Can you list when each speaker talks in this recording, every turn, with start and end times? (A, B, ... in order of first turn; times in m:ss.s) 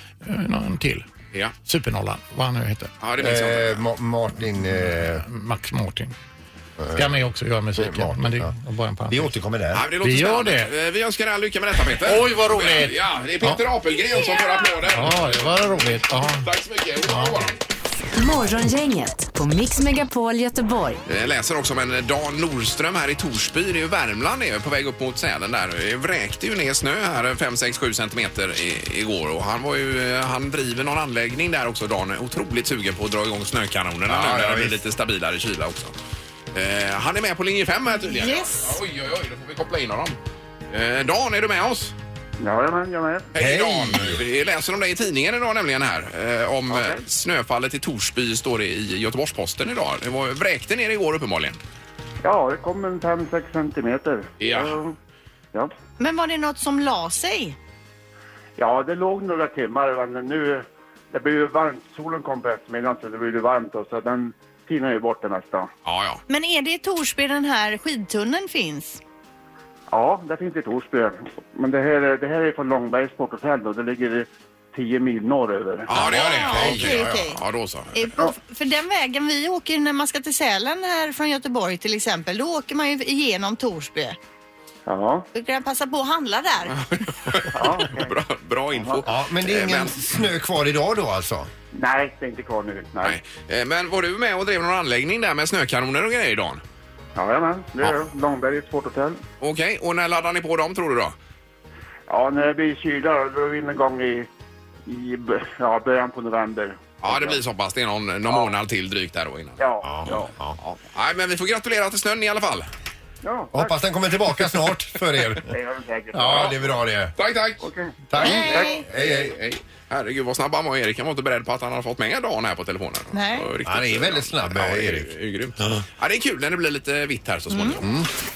0:00.2-0:01.0 A
0:01.6-0:02.9 A
0:03.0-0:03.8 B
0:03.2-0:05.2 C
0:05.0-0:06.1 A
0:06.8-0:07.1 C
0:06.9-0:09.3 A
0:07.8-0:08.5 C
0:09.1-0:09.8 C
0:09.7-0:15.4 B
0:10.0-0:10.7 A
0:12.0-0:13.6 A
0:14.1-0:14.7 D
0:14.8-0:16.5 A
0:16.4-0:17.6 B
0:17.0-0:17.5 A
0:18.1-0:21.0 E
0:21.1-0:35.9 B
0:34.1-0:34.8 C
0:36.5-0:40.2 B
0:38.0-0:38.8 D
0:40.7-0:41.9 B
0:42.4-0:43.3 F
0:43.3-0:51.6 B
0:43.4-0:44.2 C
0:52.2-0:54.9 F
0:54.4-0:54.8 B
0:56.0-0:57.6 D
0:58.6-1:05.7 F
1:05.8-1:06.2 B
1:06.3-1:09.0 D
1:09.9-1:15.9 F
1:15.9-1:18.2 B
1:15.9-1:17.4 D
1:16.6-1:16.9 A
1:17.9-1:24.2 D
1:24.9-1:25.2 F
1:25.3-1:26.7 D
1:26.7-1:30.1 B
1:27.5-1:28.1 F
1:28.7-1:29.0 F
1:29.0-1:31.5 C
1:31.7-1:33.2 F
1:33.0-1:36.6 B
1:37.2-1:39.2 F
1:39.4-1:41.1 B
1:42.1-1:44.3 F
1:44.8-1:47.4 F
1:47.0-1:49.7 B
1:49.6-1:50.3 F
1:49.8-1:50.6 C
1:50.6-1:52.7 B
1:53.2-1:53.7 F
1:53.5-1:55.5 C
1:55.5-1:56.7 F
1:56.1-1:57.1 C
1:57.2-1:57.6 B
1:57.6-1:58.8 F
1:58.1-1:59.3 C
1:58.2-1:58.8 D
1:58.2-2:07.9 B
2:03.1-2:03.5 D
2:03.6-2:05.1 C
2:07.5-2:07.8 D
2:07.8-2:08.1 C